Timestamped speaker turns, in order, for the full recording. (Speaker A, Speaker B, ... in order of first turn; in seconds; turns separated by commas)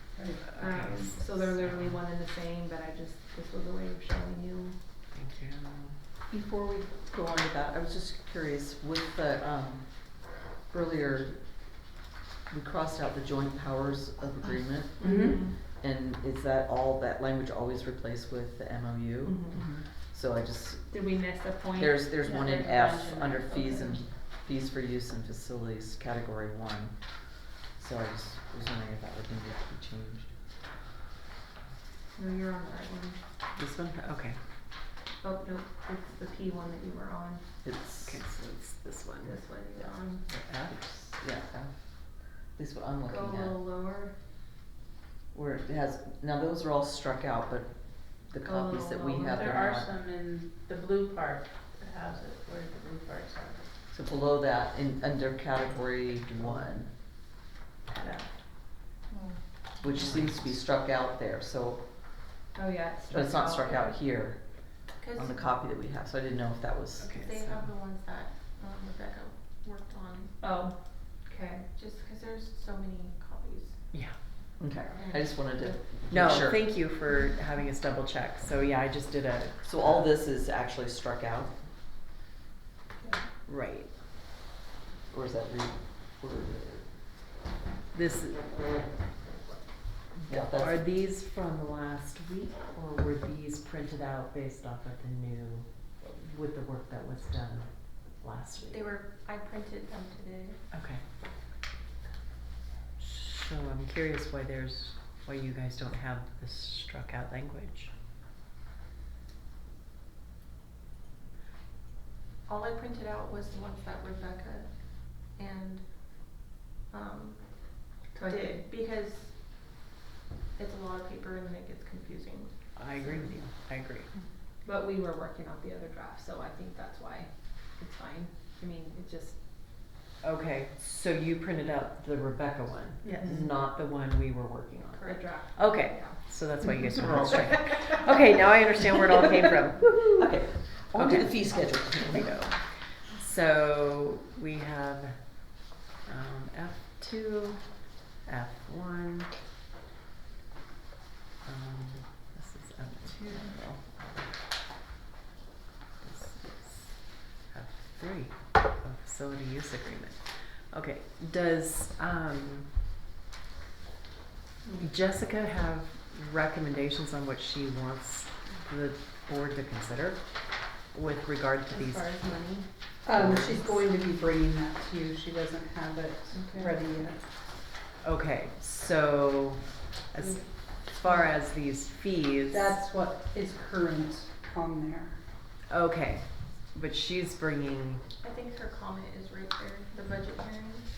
Speaker A: 0.1-0.9, Speaker B: 0.5-2.0, Speaker C: 0.6-4.8, Speaker B: 5.1-6.0, Speaker D: 6.3-11.4, Speaker D: 12.5-20.9, Speaker A: 15.0-15.4, Speaker C: 15.0-15.5, Speaker B: 19.5-19.8, Speaker C: 20.9-22.1, Speaker D: 21.7-27.0, Speaker E: 22.2-24.0, Speaker D: 27.8-30.3, Speaker C: 32.1-33.2, Speaker B: 33.5-34.4, Speaker C: 35.2-37.4, Speaker D: 37.6-38.2, Speaker B: 38.0-39.4, Speaker C: 39.2-40.2, Speaker B: 40.3-40.9, Speaker D: 40.7-41.7, Speaker D: 42.5-43.6, Speaker C: 43.0-44.1, Speaker D: 45.3-50.0, Speaker C: 48.4-49.5, Speaker E: 49.2-53.7, Speaker D: 53.9-56.9, Speaker E: 59.1-59.4, Speaker D: 59.8-61.8, Speaker B: 59.9-60.5, Speaker C: 62.5-63.7, Speaker D: 63.1-64.4, Speaker F: 63.6-63.9, Speaker F: 65.0-65.4, Speaker D: 65.1-67.2, Speaker B: 67.0-67.7, Speaker F: 67.1-70.4, Speaker C: 70.4-70.7, Speaker F: 71.3-73.8, Speaker C: 71.3-71.6, Speaker D: 74.6-76.6, Speaker F: 75.0-75.4, Speaker B: 76.1-80.1, Speaker D: 79.6-81.5, Speaker B: 83.5-83.9, Speaker D: 85.1-86.8, Speaker B: 87.9-88.8, Speaker B: 90.2-98.8, Speaker D: 90.3-90.8, Speaker F: 98.7-100.6, Speaker B: 100.7-101.0, Speaker B: 103.0-107.9, Speaker F: 112.5-119.3, Speaker C: 118.2-118.6, Speaker F: 120.6-122.5, Speaker B: 122.8-124.1, Speaker C: 124.6-129.3, Speaker B: 130.2-145.2, Speaker F: 133.0-133.3, Speaker C: 134.9-136.1, Speaker D: 140.2-142.3, Speaker B: 146.1-147.6, Speaker B: 148.2-149.3, Speaker B: 151.4-154.3, Speaker B: 156.0-162.7, Speaker B: 164.8-170.2, Speaker B: 170.9-172.1, Speaker C: 171.7-172.7, Speaker A: 173.0-177.2, Speaker B: 173.1-173.7, Speaker C: 176.3-176.8, Speaker B: 178.0-182.8, Speaker C: 181.0-181.3, Speaker A: 182.5-185.2, Speaker B: 185.7-188.0, Speaker F: 188.2-190.9